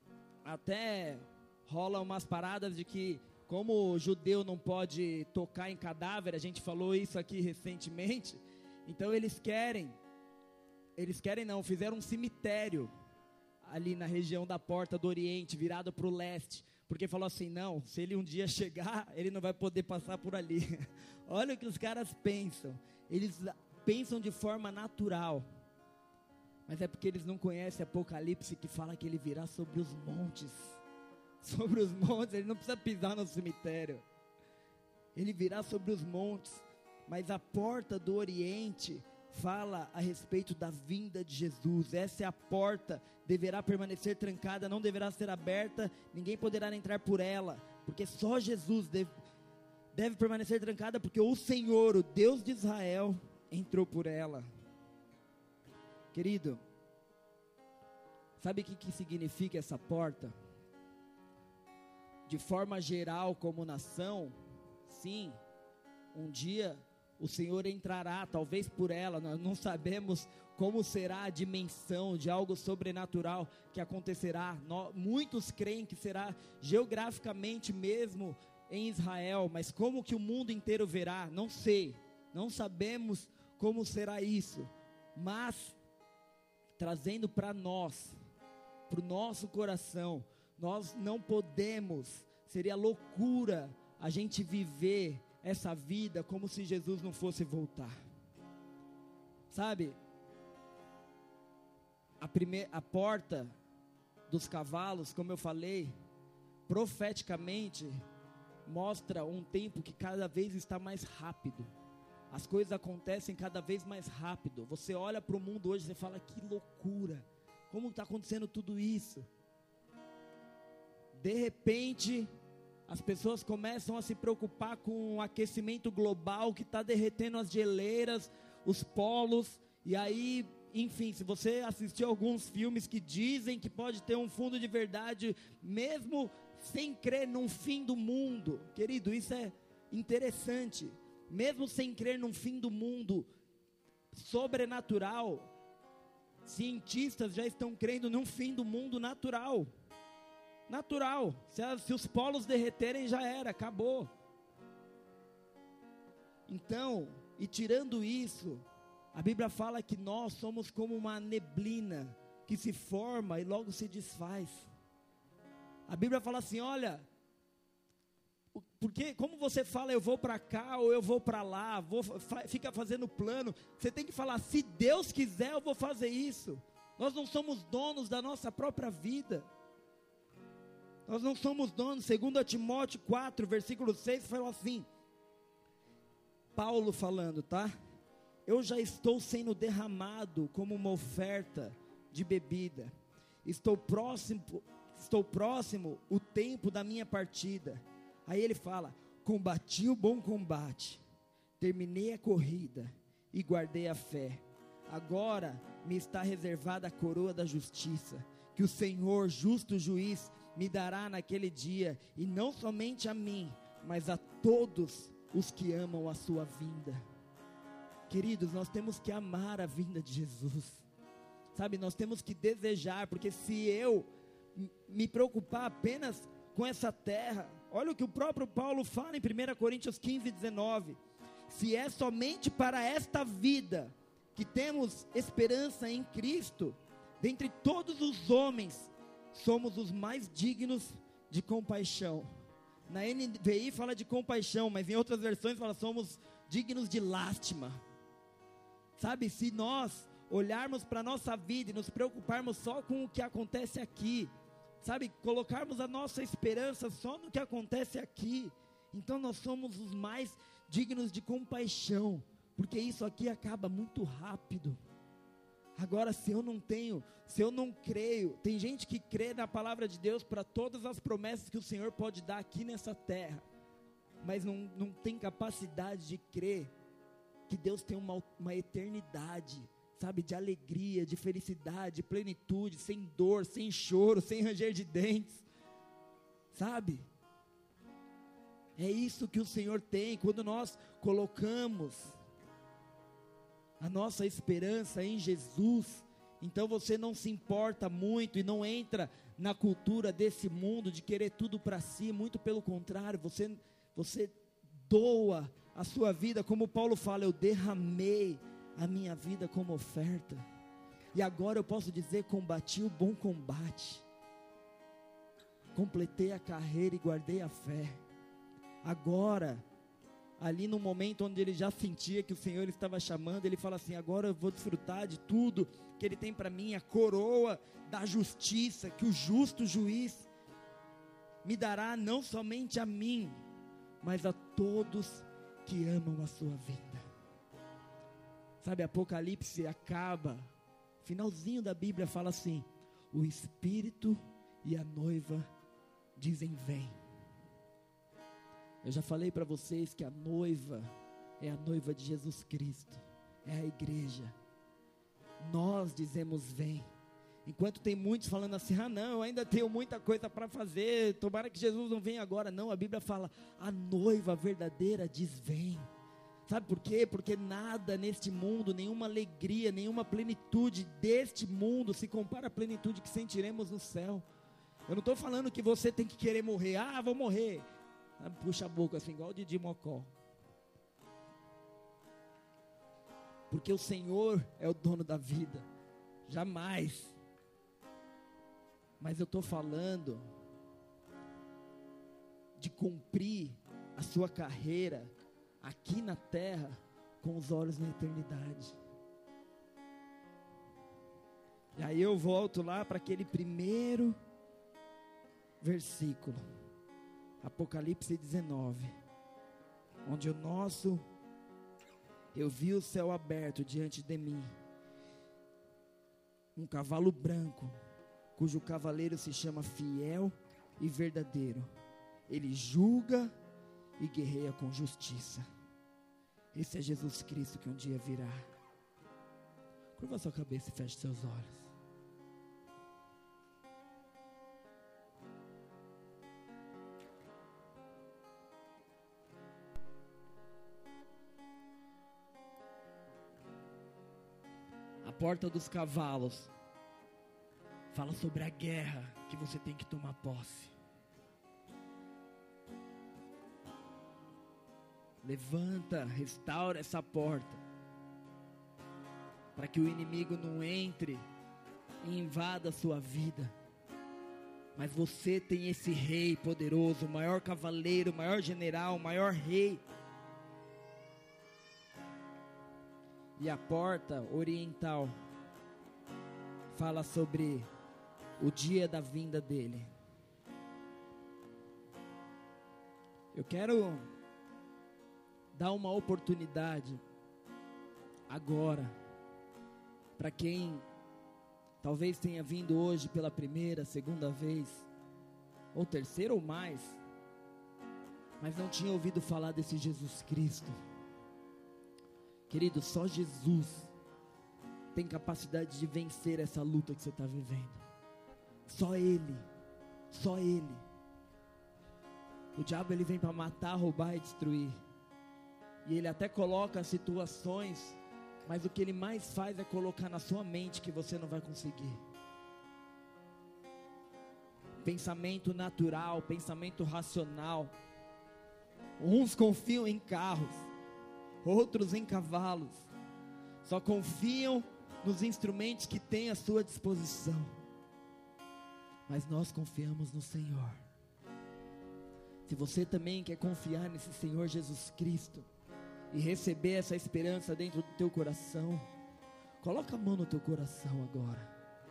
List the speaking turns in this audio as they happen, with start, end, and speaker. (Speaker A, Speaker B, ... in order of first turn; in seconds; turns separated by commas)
Speaker A: 0.4-10.0, Speaker A: 11.0-12.9, Speaker A: 13.6-25.4, Speaker A: 26.7-30.8, Speaker A: 31.4-34.0, Speaker A: 35.1-49.1, Speaker A: 49.9-54.5, Speaker A: 56.1-56.6, Speaker A: 58.4-60.3, Speaker A: 62.3-64.3, Speaker A: 64.9-65.4, Speaker A: 66.1-85.8, Speaker A: 86.8-88.2, Speaker A: 88.9-97.9, Speaker A: 99.5-100.0, Speaker A: 102.2-103.5, Speaker A: 104.3-105.9, Speaker A: 106.7-108.0, Speaker A: 108.7-111.7, Speaker A: 112.3-119.3, Speaker A: 121.1-122.3, Speaker A: 122.9-143.3, Speaker A: 144.1-145.5, Speaker A: 146.4-149.7, Speaker A: 150.7-154.1, Speaker A: 156.5-164.7, Speaker A: 165.9-167.1, Speaker A: 168.5-179.5, Speaker A: 181.1-184.9, Speaker A: 186.5-187.7, Speaker A: 188.4-192.9, Speaker A: 193.4-201.0, Speaker A: 201.6-217.0, Speaker A: 218.1-220.8, Speaker A: 221.5-231.0, Speaker A: 231.5-242.3, Speaker A: 242.9-247.8, Speaker A: 249.0-254.3, Speaker A: 254.8-264.8, Speaker A: 265.8-273.4, Speaker A: 274.2-276.7, Speaker A: 277.5-285.4, Speaker A: 286.5-287.1, Speaker A: 288.8-292.1, Speaker A: 293.8-304.3, Speaker A: 304.9-310.4, Speaker A: 311.1-314.0, Speaker A: 315.7-318.0, Speaker A: 318.8-319.6, Speaker A: 320.4-330.3, Speaker A: 331.4-333.4, Speaker A: 334.0-337.0, Speaker A: 338.6-340.5, Speaker A: 341.0-345.5, Speaker A: 346.2-346.9, Speaker A: 348.8-354.3, Speaker A: 355.4-356.9, Speaker A: 357.4-365.9, Speaker A: 366.5-374.2, Speaker A: 374.9-377.6, Speaker A: 378.2-380.1, Speaker A: 383.5-385.7, Speaker A: 386.3-387.1, Speaker A: 389.0-390.2, Speaker A: 392.6-398.8, Speaker A: 401.8-404.2, Speaker A: 405.6-406.4, Speaker A: 407.4-408.9, Speaker A: 410.1-411.0, Speaker A: 412.3-414.5, Speaker A: 416.6-417.7, Speaker A: 418.4-421.7, Speaker A: 422.3-423.3, Speaker A: 424.0-425.4, Speaker A: 426.5-428.5, Speaker A: 429.9-431.7, Speaker A: 445.0-446.5, Speaker A: 447.9-450.7, Speaker A: 455.2-457.6, Speaker A: 459.5-461.2, Speaker A: 462.0-463.5, Speaker A: 464.8-469.8, Speaker A: 473.4-475.1, Speaker A: 476.7-477.7, Speaker A: 478.4-479.9, Speaker A: 483.3-484.0, Speaker A: 485.5-487.0, Speaker A: 488.3-488.9, Speaker A: 490.2-490.8, Speaker A: 491.8-494.9, Speaker A: 495.7-497.0, Speaker A: 498.4-500.8, Speaker A: 502.5-503.9, Speaker A: 504.9-507.8, Speaker A: 508.7-509.4, Speaker A: 510.1-510.8, Speaker A: 512.5-514.8, Speaker A: 515.8-522.0, Speaker A: 524.8-527.7, Speaker A: 529.0-530.6, Speaker A: 531.4-532.9, Speaker A: 533.6-537.5, Speaker A: 539.1-540.8, Speaker A: 542.5-545.5, Speaker A: 546.1-548.9, Speaker A: 549.6-551.5